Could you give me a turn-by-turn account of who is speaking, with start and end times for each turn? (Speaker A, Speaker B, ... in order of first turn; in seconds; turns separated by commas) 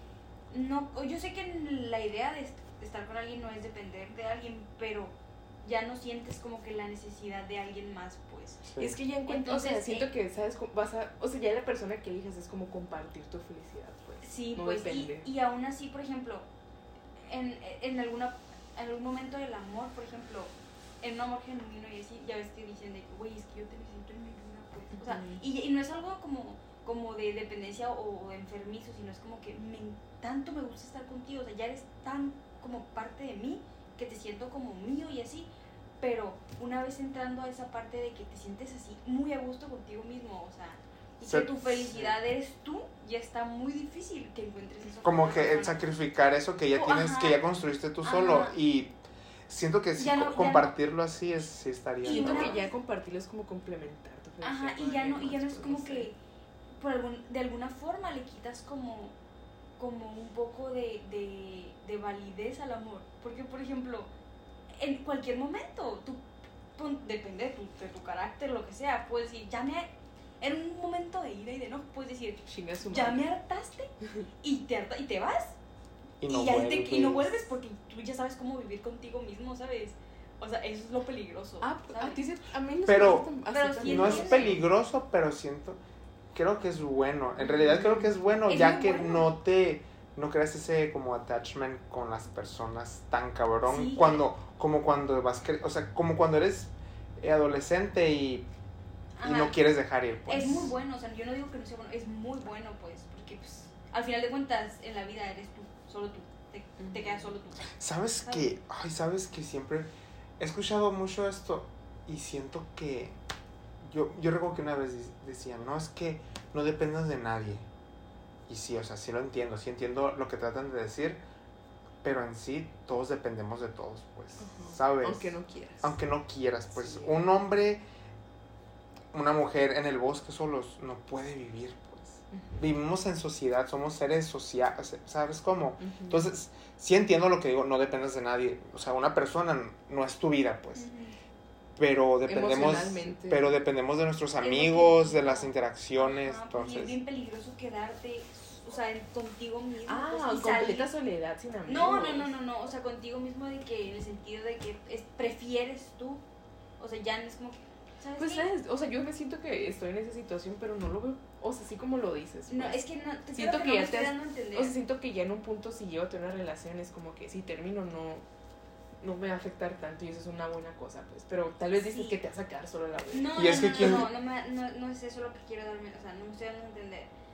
Speaker A: 0.5-8.7, Speaker B: 8.7-9.0, Speaker C: 8.8-15.3, Speaker A: 9.2-10.1, Speaker A: 14.2-16.5, Speaker A: 17.2-45.9, Speaker C: 25.0-25.4, Speaker B: 41.2-42.2, Speaker B: 45.0-49.0, Speaker A: 46.7-47.4, Speaker A: 48.0-48.5, Speaker B: 49.5-52.5, Speaker A: 50.0-50.7, Speaker A: 52.0-52.7, Speaker C: 52.0-56.1, Speaker A: 54.4-56.2, Speaker A: 56.8-59.1, Speaker A: 59.8-64.1, Speaker A: 64.7-69.9, Speaker A: 70.4-73.9, Speaker C: 72.5-73.3, Speaker A: 74.4-75.6, Speaker B: 76.2-77.4, Speaker A: 76.2-82.2, Speaker C: 81.6-84.6, Speaker B: 82.8-85.8, Speaker A: 83.5-84.6, Speaker B: 86.3-98.5, Speaker C: 87.4-88.1, Speaker A: 88.5-89.3, Speaker A: 93.6-94.2, Speaker A: 99.2-99.6, Speaker B: 99.2-100.7, Speaker A: 100.3-108.5, Speaker C: 106.8-107.3, Speaker B: 107.7-113.2, Speaker B: 113.8-117.7, Speaker B: 118.5-121.2, Speaker B: 122.0-127.8, Speaker C: 124.4-125.9, Speaker C: 126.7-127.2, Speaker B: 129.1-140.9, Speaker C: 132.3-132.6, Speaker C: 135.8-136.2, Speaker A: 140.8-141.2, Speaker B: 141.8-146.9, Speaker C: 142.2-143.6, Speaker A: 144.4-150.9, Speaker C: 149.8-152.3, Speaker A: 151.7-156.2, Speaker A: 156.8-158.5, Speaker C: 158.2-162.8, Speaker A: 162.5-164.8, Speaker C: 163.3-168.2, Speaker C: 169.0-173.9, Speaker A: 171.8-172.2, Speaker A: 173.1-177.1, Speaker B: 173.3-174.1